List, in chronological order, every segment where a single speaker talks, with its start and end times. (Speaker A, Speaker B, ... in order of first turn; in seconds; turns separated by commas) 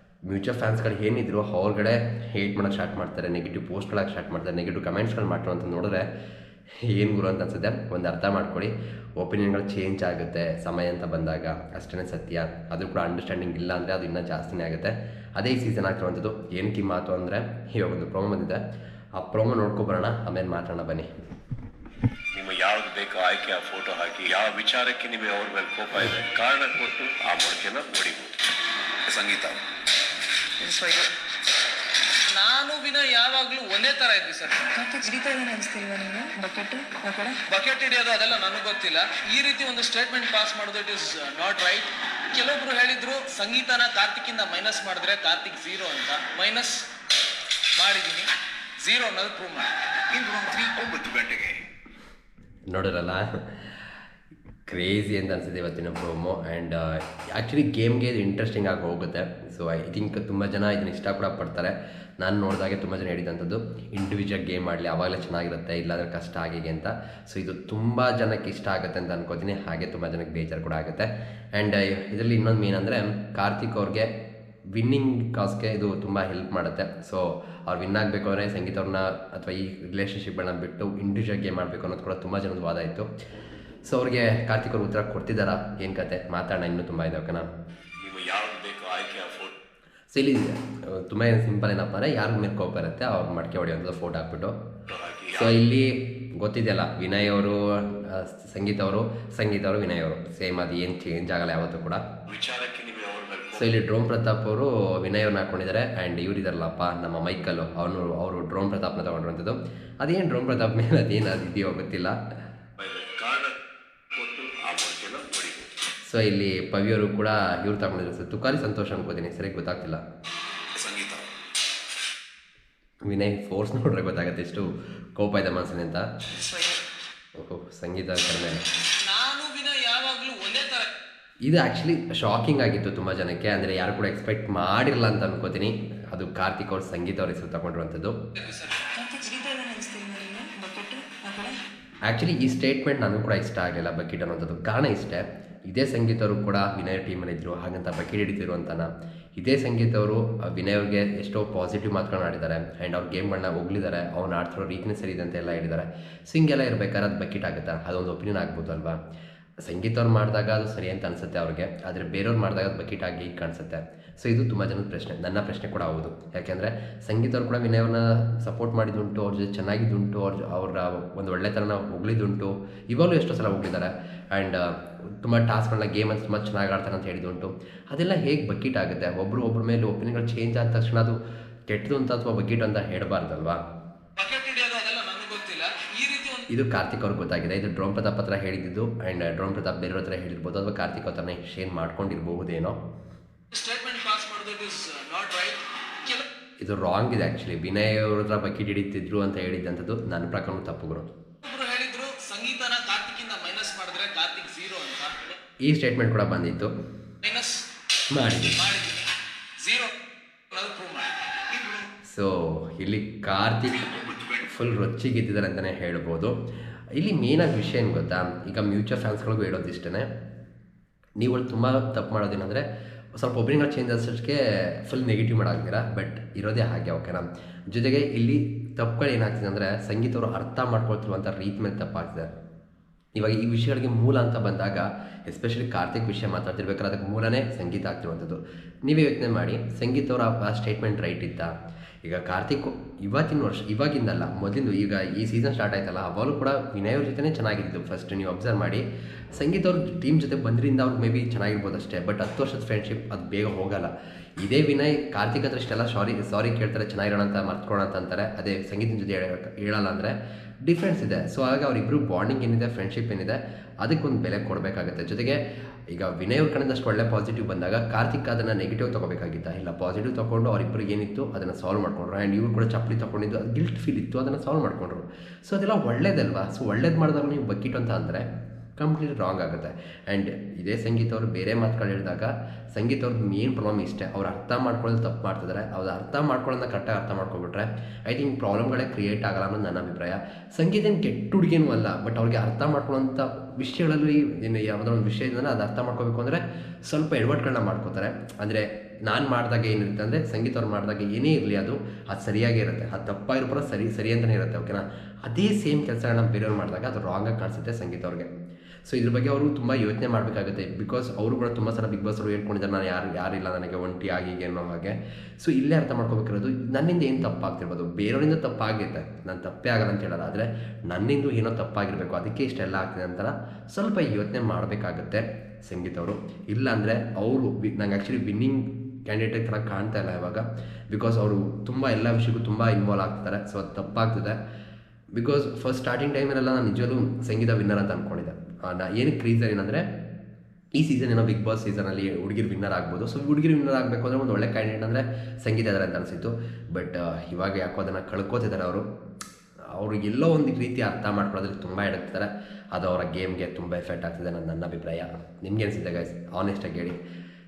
Speaker A: 0.2-6.0, Speaker A: 6.8-18.6, Speaker A: 19.2-21.1, Speaker B: 22.3-28.3, Speaker B: 29.1-29.5, Speaker C: 30.6-31.1, Speaker D: 32.3-34.7, Speaker C: 34.7-37.4, Speaker D: 37.5-46.8, Speaker D: 47.8-48.3, Speaker D: 48.8-51.6, Speaker A: 52.7-53.3, Speaker A: 54.7-74.1, Speaker A: 74.7-83.1, Speaker A: 83.8-87.5, Speaker B: 88.0-89.5, Speaker A: 90.1-94.5, Speaker B: 94.9-95.6, Speaker A: 95.4-102.0, Speaker B: 102.3-103.7, Speaker A: 103.5-112.2, Speaker B: 112.8-113.5, Speaker B: 114.1-115.7, Speaker A: 116.0-120.0, Speaker B: 120.7-121.2, Speaker A: 123.0-126.0, Speaker C: 126.4-126.8, Speaker A: 127.4-128.6, Speaker D: 129.0-130.9, Speaker A: 131.4-138.2, Speaker D: 138.4-138.8, Speaker C: 138.9-141.6, Speaker A: 142.1-159.0, Speaker A: 159.6-181.2, Speaker A: 181.7-183.6, Speaker D: 184.2-186.4, Speaker A: 186.5-192.8, Speaker D: 193.5-196.2, Speaker A: 196.6-201.1, Speaker D: 201.4-205.3, Speaker A: 205.6-206.7, Speaker D: 207.2-207.6, Speaker A: 208.1-208.6, Speaker D: 208.5-209.1, Speaker D: 209.6-209.9, Speaker D: 210.5-211.9, Speaker A: 212.1-216.4, Speaker D: 213.9-214.3, Speaker A: 216.9-220.1, Speaker A: 221.2-232.3, Speaker A: 233.2-241.5, Speaker A: 242.0-248.8, Speaker A: 249.3-278.2, Speaker A: 278.8-308.3, Speaker A: 308.9-334.4, Speaker A: 335.1-339.8, Speaker A: 340.7-348.9, Speaker A: 349.7-357.0